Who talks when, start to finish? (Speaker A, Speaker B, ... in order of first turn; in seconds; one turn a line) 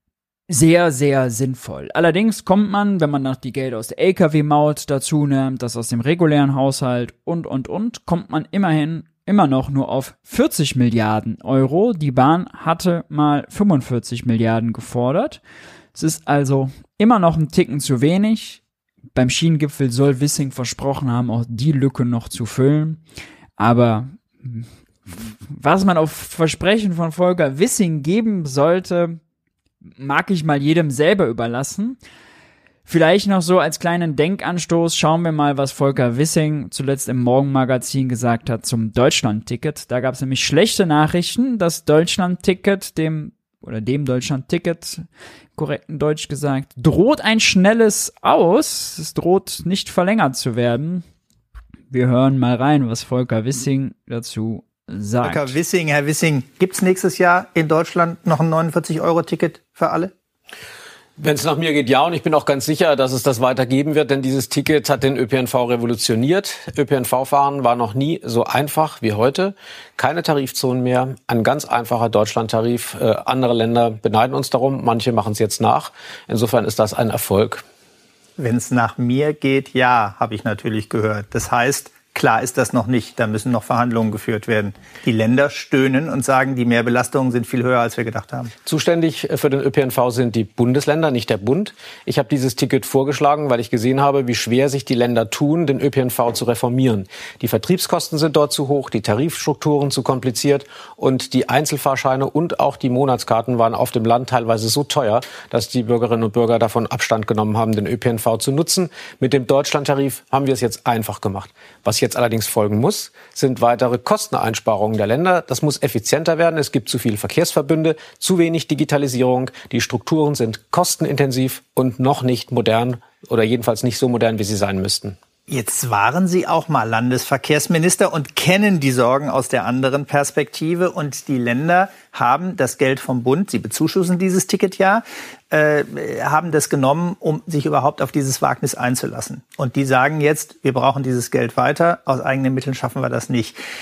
Speaker A: 0.5-15.4
Speaker A: 15.9-18.6
Speaker A: 19.1-23.0
Speaker A: 23.6-29.2
Speaker A: 30.0-32.0
Speaker A: 32.9-45.0
Speaker A: 45.6-51.0
Speaker A: 51.9-55.6
Speaker B: 55.2-60.1
Speaker C: 61.2-77.6
Speaker B: 78.4-88.5
Speaker C: 88.7-125.2
Speaker B: 125.5-143.6